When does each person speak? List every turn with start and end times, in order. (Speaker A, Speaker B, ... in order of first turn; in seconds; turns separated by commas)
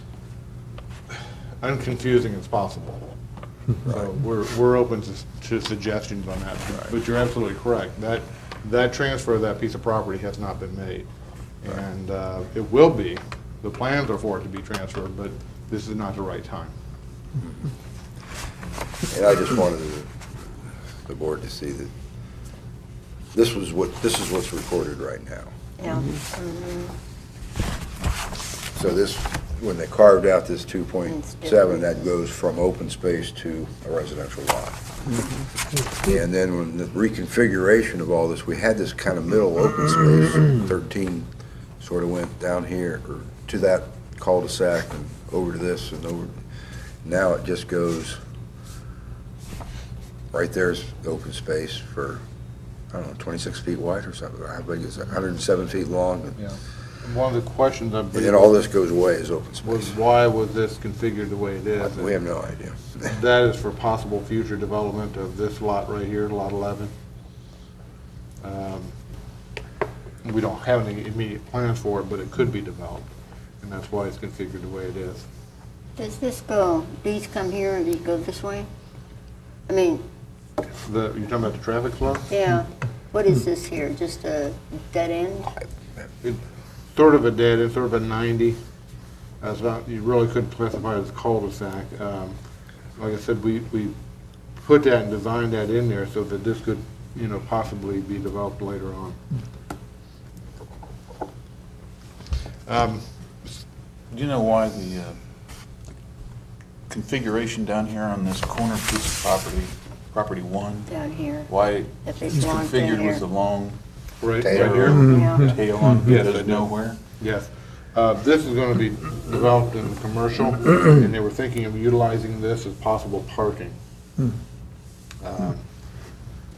Speaker A: 1.6-3.1, Speaker A: 3.8-11.1, Speaker B: 3.8-4.1, Speaker A: 11.6-16.7, Speaker B: 19.1-20.1, Speaker B: 21.0-21.9, Speaker B: 23.3-25.5, Speaker C: 25.8-26.9, Speaker B: 28.7-34.8, Speaker C: 31.1-31.9, Speaker B: 36.0-41.3, Speaker B: 41.8-46.4, Speaker B: 47.0-48.2, Speaker B: 50.3-52.2, Speaker B: 52.9-56.5, Speaker A: 56.4-58.6, Speaker B: 58.1-59.9, Speaker A: 59.6-62.1, Speaker B: 61.8-63.0, Speaker A: 63.0-66.9, Speaker A: 68.4-68.9, Speaker A: 70.2-73.1, Speaker A: 73.6-75.2, Speaker C: 76.0-78.7, Speaker C: 79.7-80.0, Speaker A: 80.8-82.3, Speaker C: 82.3-85.5, Speaker A: 86.9-88.6, Speaker A: 89.4-92.3, Speaker A: 93.0-93.9, Speaker A: 94.6-99.2, Speaker A: 102.7-103.6, Speaker D: 104.1-105.2, Speaker D: 106.9-113.8, Speaker C: 110.9-111.5, Speaker C: 112.0-113.2, Speaker A: 114.2-115.1, Speaker D: 114.4-117.0, Speaker B: 114.4-115.1, Speaker C: 114.8-115.8, Speaker A: 116.0-123.7, Speaker A: 125.2-125.7